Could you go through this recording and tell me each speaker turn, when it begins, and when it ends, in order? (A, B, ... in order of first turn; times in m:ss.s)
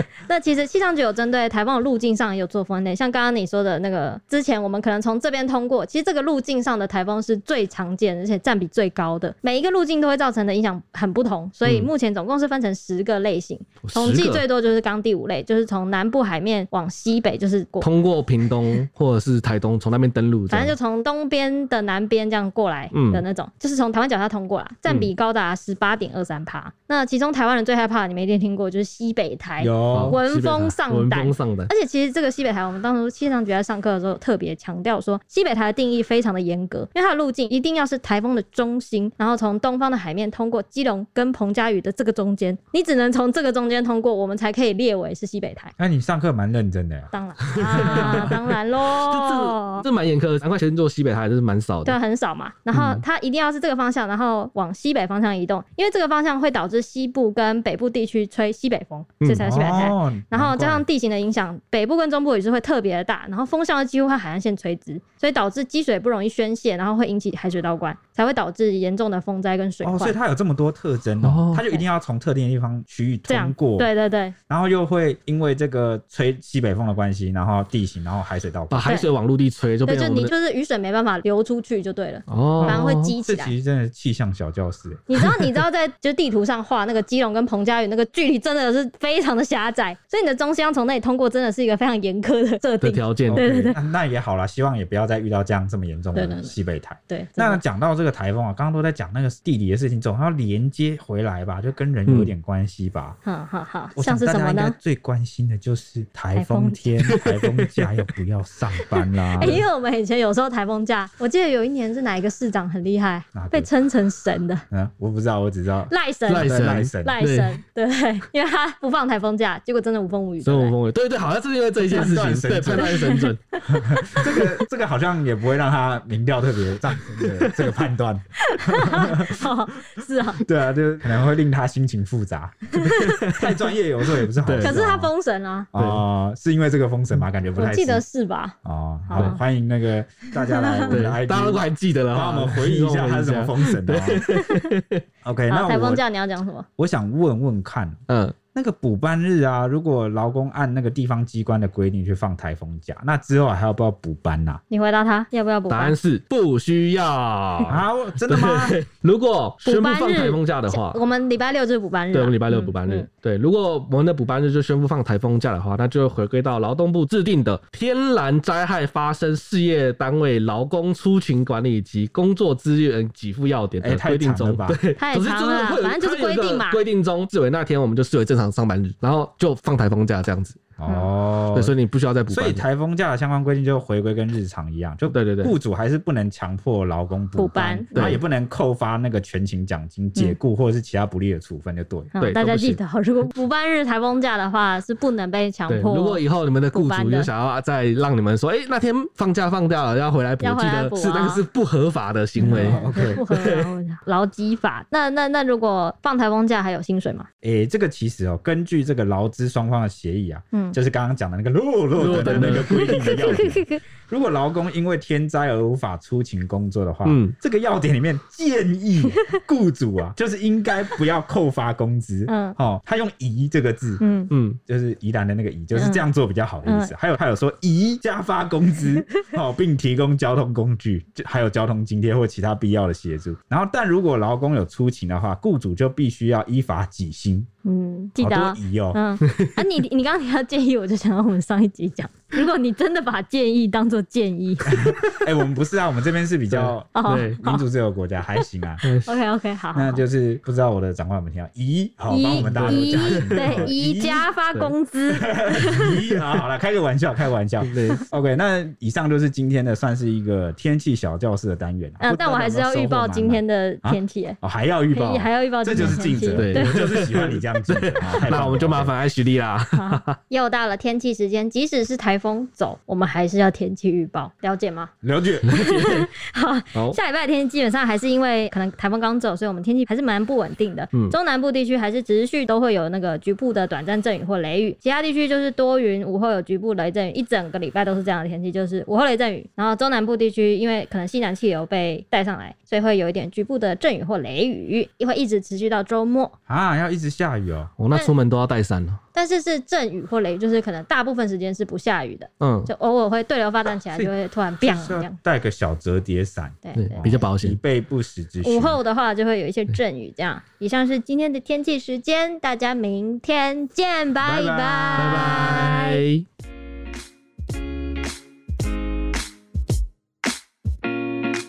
0:00.2-0:17.9 A
0:13.8-0:14.4 B
0:17.8-0:20.7 B
0:20.5-0:45.7 A
0:22.9-0:23.2 B
0:29.6-0:30.2 C
0:29.9-0:31.7 B
0:45.8-0:47.1 C
0:47.1-0:49.8 A
0:47.7-0:48.4 B
0:47.7-0:48.3 C
0:49.0-0:52.0 B
0:51.8-1:10.2 A
0:52.7-0:53.0 B
0:59.4-1:00.8 C
1:09.8-1:13.9 C
1:11.2-1:11.6 B
1:13.3-1:14.3 A
1:14.5-1:18.9 C
1:18.7-1:20.3 B
1:19.8-1:23.5 A
1:22.3-1:23.1 B
1:22.6-1:25.1 C
1:25.1-1:33.8 A
1:32.8-1:33.7 B
1:33.3-1:43.2 C
1:36.1-1:36.5 A
1:37.1-1:37.6 A
1:42.1-1:42.3 B
1:43.2-1:44.8 A
1:44.0-1:49.6 C
1:46.3-1:47.0 A
1:47.1-1:47.8 B
1:49.4-1:54.6 A
1:53.3-1:53.7 C
1:54.7-1:57.2 C
1:55.9-2:00.8 A
1:56.3-1:57.6 B
2:00.4-2:03.4 B
2:01.9-2:03.0 C
2:02.6-2:03.3 A
2:03.6-2:09.4 C
2:07.3-2:07.7 B
2:08.5-2:10.4 A
2:10.4-2:15.1 C
2:12.8-2:13.4 B
2:14.4-2:14.8 B
2:14.6-2:15.7 A
2:15.7-2:18.0 C
2:15.8-2:16.0 B
2:17.6-2:18.5 A
2:18.6-2:24.2 C
2:19.1-2:19.4 A
2:20.5-2:20.9 A
2:20.9-2:25.0 B
2:24.3-2:24.6 A
2:25.2-2:26.0 C
2:25.5-2:26.6 A
2:26.8-2:28.0 C
2:28.1-2:28.4 B
2:28.5-2:34.6 C
2:34.7-2:36.0 A
2:35.7-2:41.0 B
2:37.6-2:38.8 C
2:39.6-2:43.0 A
2:42.1-3:00.6 B
2:53.8-2:54.8 C
2:55.0-2:56.8 A
3:00.8-3:01.7 C
3:01.5-3:02.6 B
3:02.3-3:12.1 C
3:05.1-3:05.6 B
3:07.3-3:07.9 A
3:07.9-3:08.2 B
3:12.1-3:16.2 A
3:12.2-3:12.8 B
3:15.7-3:23.6 B
3:16.7-3:17.3 A
3:20.4-3:21.4 A
3:22.4-3:23.2 C
3:22.4-3:27.3 A
3:27.4-3:44.0 C
3:30.5-3:30.8 A
3:32.0-3:32.9 B
3:32.2-3:33.8 A
3:37.0-3:37.3 B
3:42.3-3:42.6 A
3:44.0-3:44.3 A
3:44.3-3:44.6 B
3:44.7-3:57.5 C
3:45.7-3:46.0 A
3:46.6-3:46.9 A
3:57.6-4:04.8 A
3:58.2-3:59.0 C
4:04.7-4:08.8 C
4:06.5-4:07.4 B
4:06.9-4:07.6 A
4:08.8-4:09.1 B
4:09.0-4:10.0 A
4:09.7-4:14.2 C
4:12.1-4:15.9 A
4:12.3-4:13.7 B
4:15.2-4:28.9 C
4:17.6-4:18.0 B
4:22.0-4:24.4 A
4:24.9-4:26.7 A
4:25.7-4:30.1 B
4:29.8-4:34.9 A
4:35.0-4:35.5 C
4:35.5-4:36.0 B
4:35.5-4:56.3 A
4:56.5-4:57.7 C
4:57.8-4:59.0 B
4:59.1-5:05.2 A
5:02.4-5:02.7 B
5:04.6-5:08.8 C
5:06.6-5:07.2 A
5:06.8-5:07.6 B
5:08.4-5:16.0 A
5:14.2-5:15.2 C
5:14.9-5:16.2 B